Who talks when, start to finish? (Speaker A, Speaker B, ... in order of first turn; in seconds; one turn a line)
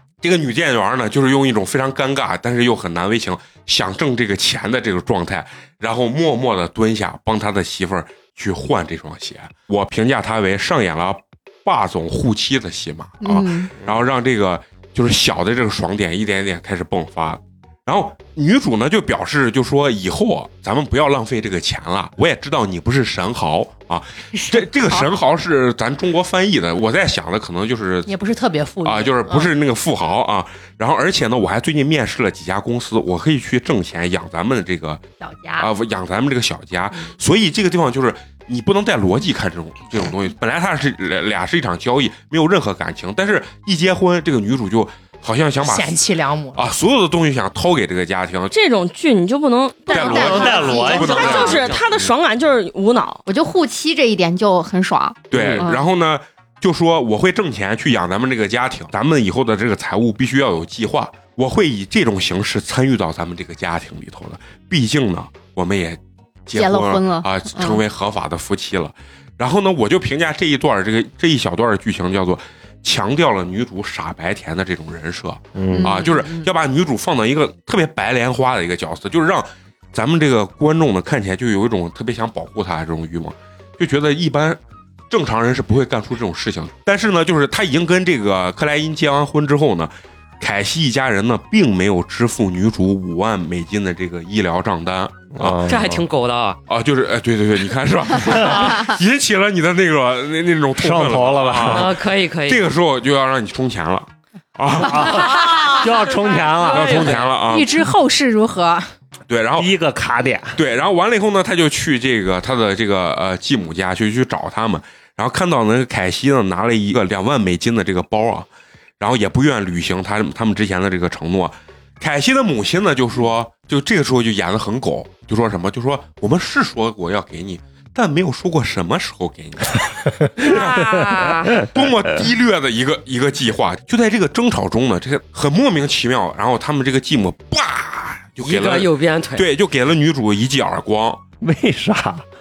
Speaker A: 0.2-28.1
Speaker B: 13.2-13.7
Speaker C: 28.1-29.5
Speaker A: 28.8-35.0
Speaker B: 35.2-35.7
Speaker A: 35.6-46.0
Speaker C: 45.6-46.6
Speaker A: 46.5-48.5
Speaker D: 48.5-53.2
Speaker A: 49.9-51.8
Speaker E: 49.9-51.6
Speaker C: 50.0-50.7
Speaker B: 50.2-51.0
Speaker F: 50.4-51.9
Speaker B: 53.3-55.8
Speaker A: 55.3-96.0
Speaker F: 55.3-55.7
Speaker B: 66.5-67.8
Speaker E: 75.5-76.0
Speaker B: 75.7-76.5
Speaker E: 95.3-96.0
Speaker F: 95.7-96.6
Speaker A: 96.7-105.8
Speaker E: 100.8-101.9
Speaker F: 101.6-102.7
Speaker E: 104.8-107.3
Speaker F: 105.1-107.3
Speaker A: 106.6-107.9
Speaker C: 107.4-108.9
Speaker A: 109.3-109.7
Speaker E: 109.6-110.6
Speaker A: 110.5-118.5
Speaker A: 119.0-141.2
Speaker F: 130.4-131.7
Speaker F: 138.4-139.5
Speaker E: 141.4-142.2